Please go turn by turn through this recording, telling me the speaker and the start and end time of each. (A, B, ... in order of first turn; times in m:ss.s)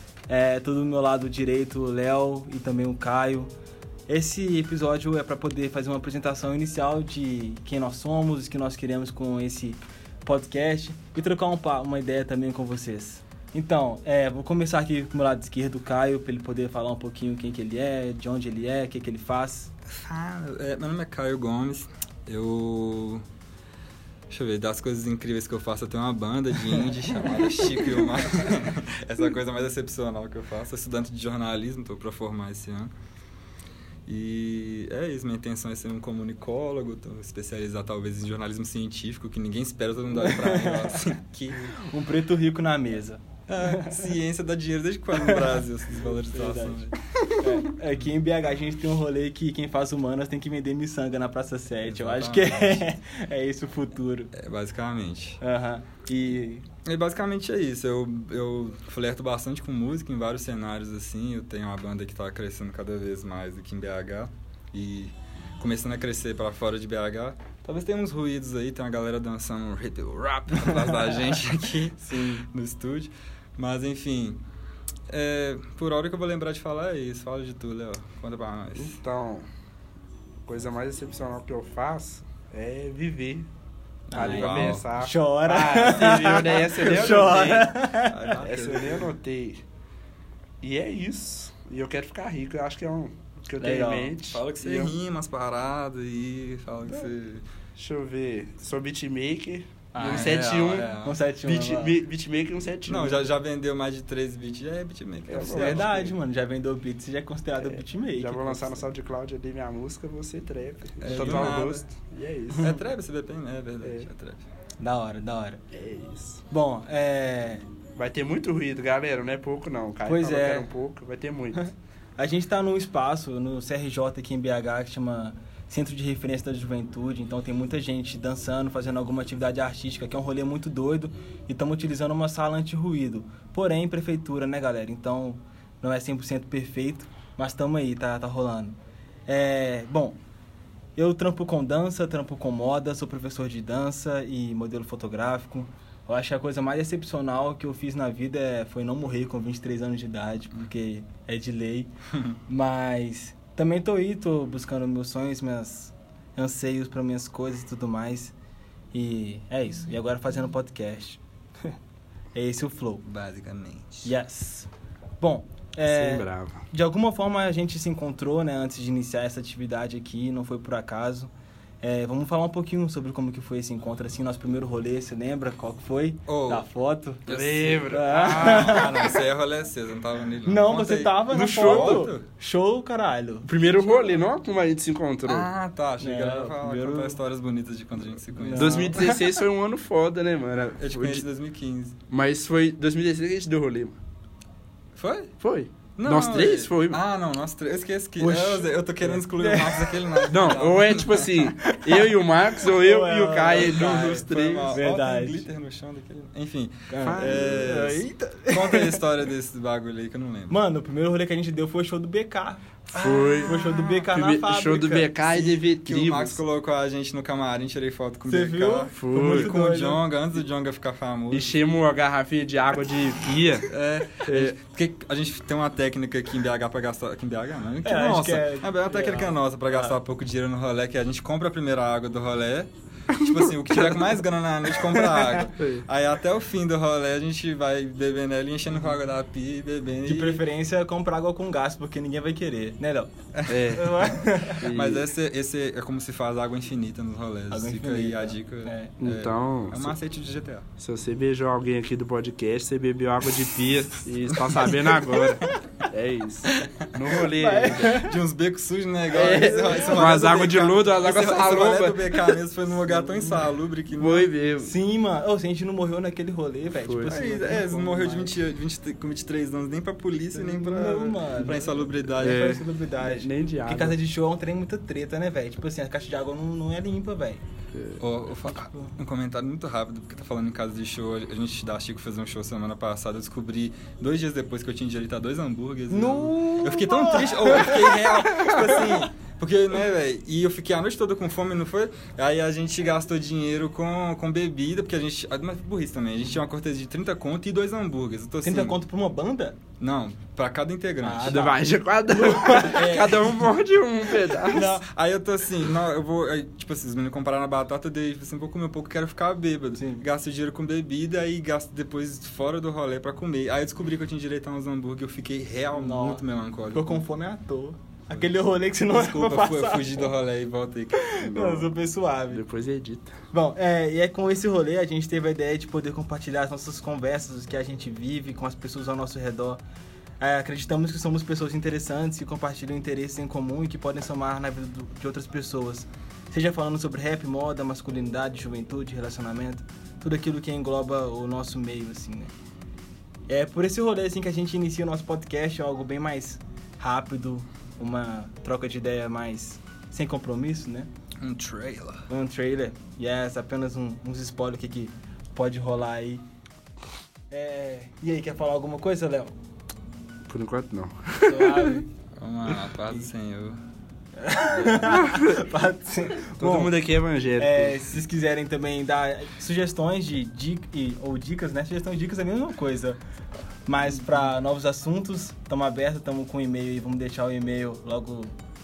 0:00.3-0:03.5 A
0:04.1-0:19.7 A
0:20.0-0:23.2 B
0:24.3-0:32.9 B
0:34.0-0:41.6 B
0:40.1-0:41.0 A
0:41.6-0:44.0 A
0:43.5-0:47.0 B
0:45.2-0:54.3 A
0:51.8-0:52.9 B
0:54.3-0:55.4 B
0:55.4-0:56.6 A
0:56.8-1:14.4 B
1:15.1-1:19.0 B
1:18.8-1:19.5 C
1:20.4-1:23.5 C
1:24.1-1:24.9 B
1:24.1-1:27.7 C
1:24.1-1:28.4 A
1:25.8-1:29.1 B
1:28.4-1:29.6 C
1:30.6-1:34.9 C
1:33.6-1:34.8 A
1:34.3-1:37.4 B
1:37.8-1:43.3 C
1:39.9-1:40.3 A
1:40.0-1:41.2 B
1:41.0-1:41.9 A
1:42.9-1:45.9 B
1:45.3-1:46.1 C
1:45.5-1:48.9 A
1:47.6-1:52.8 C
1:51.0-1:51.8 B
1:51.1-1:51.6 A
1:52.6-1:54.4 B
1:53.8-1:54.1 C
1:54.8-1:55.6 A
1:55.7-1:56.4 C
1:56.5-1:57.6 A
1:58.0-2:01.7 C
2:00.0-2:00.7 A
2:01.5-2:20.2 A
2:21.0-2:31.9 A
2:32.5-2:38.3 A
2:38.9-2:41.2 A
2:42.3-2:43.0 A
2:43.0-2:44.1 B
2:44.0-2:57.3 A
2:45.9-2:46.6 C
2:56.3-2:56.7 B
2:57.2-3:02.2 B
2:57.3-2:58.9 C
2:57.9-2:59.2 A
3:00.4-3:03.5 A
3:01.3-3:02.1 C
3:03.4-3:05.5 C
3:03.8-3:04.2 B
3:05.2-3:09.2 B
3:06.0-3:07.2 A
3:08.4-3:09.1 A
3:08.5-3:11.2 C
3:10.8-3:12.0 B
3:12.1-3:14.0 C
3:15.0-3:15.3 B
3:15.4-3:17.0 C
3:16.0-3:21.4 B
3:18.2-3:20.5 A
3:20.3-3:24.8 C
3:21.6-3:22.1 A
3:22.6-3:25.4 A
3:23.5-3:30.6 B
3:26.9-3:29.0 A
3:27.1-3:27.4 C
3:30.5-3:32.6 A
3:32.9-3:33.6 C
3:32.9-3:34.1 B
3:33.4-3:35.1 A
3:34.1-3:36.4 C
3:35.2-3:41.5 B
3:38.2-3:40.0 A
3:38.9-3:39.5 C
3:41.3-3:43.7 C
3:43.7-4:00.4 B
3:44.2-3:44.5 C
3:47.8-3:50.0 A
3:53.7-3:54.2 C
3:55.0-3:55.4 A
3:55.6-3:55.8 C
4:00.0-4:03.1 A
4:03.3-4:04.1 B
4:03.5-4:04.0 C
4:03.7-4:04.7 A
4:04.6-4:05.1 C
4:04.6-4:10.6 B
4:07.5-4:09.0 A
4:09.0-4:09.9 C
4:10.8-4:18.0 C
4:17.3-4:18.2 A
4:17.9-4:24.3 B
4:19.1-4:20.2 A
4:19.1-4:22.4 C
4:22.9-4:23.3 A
4:24.0-4:24.7 C
4:24.6-4:28.3 A
4:26.8-4:27.2 C
4:27.1-4:32.5 B
4:30.3-4:37.4 A
4:32.2-4:34.0 C
4:37.7-4:38.0 C
4:38.0-4:58.8 B
4:38.5-4:38.9 A
4:45.9-4:49.0 A
4:58.4-4:59.6 A
4:59.8-5:01.5 B
5:01.0-5:03.0 A
5:01.2-5:04.8 C
5:02.6-5:03.5 B
5:04.4-5:17.0 B
5:09.7-5:10.0 A
5:15.7-5:20.1 A
5:18.9-5:21.6 B
5:21.0-5:22.4 A
5:21.4-5:21.6 C
5:22.3-5:23.1 C
5:23.3-5:29.6 A
5:30.2-5:42.3 A
5:43.3-5:50.9 A
5:51.2-5:52.1 B
5:52.1-5:56.2 A
5:57.3-5:59.3 A
6:00.3-6:01.8 C
6:01.2-6:01.9 A
6:02.2-6:03.6 B
6:04.2-6:06.7 A
6:06.4-6:07.8 C
6:07.4-6:13.0 A
6:13.6-6:18.3 A